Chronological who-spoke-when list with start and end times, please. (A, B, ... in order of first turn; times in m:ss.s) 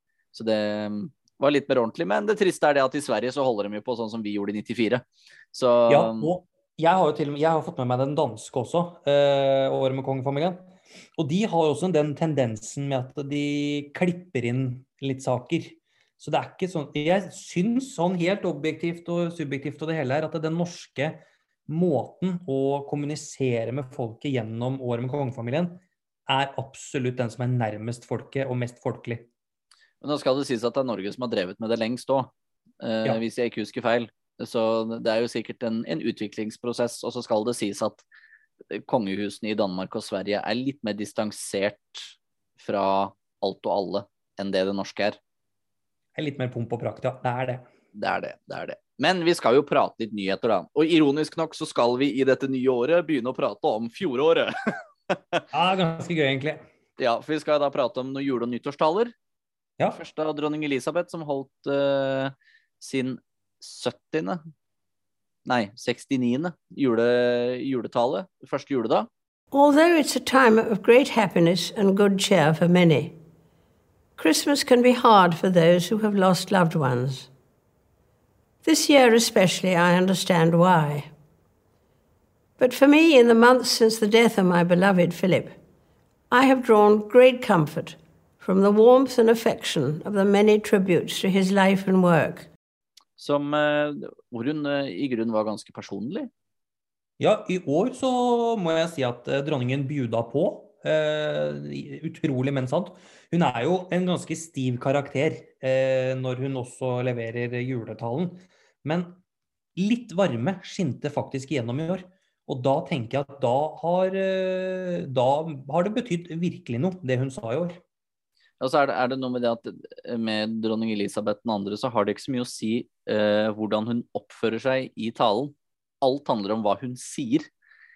0:00.3-0:06.3 A
0:05.9-0:29.3 B
0:30.0-0:38.0 A
0:38.7-0:45.2 A
0:46.2-0:47.6 B
0:48.0-0:54.5 A
0:55.1-0:55.4 A
0:55.5-0:56.6 B
0:57.0-0:59.1 A
0:59.9-1:04.4 A
1:05.5-1:09.1 A
1:09.5-1:13.2 C
1:14.2-1:17.3 C
1:18.6-1:21.1 C
1:22.6-1:25.6 C
1:26.3-1:32.5 C
1:33.2-1:36.3 A
1:37.2-1:49.2 B
1:49.8-1:57.8 B
1:58.6-2:07.5 A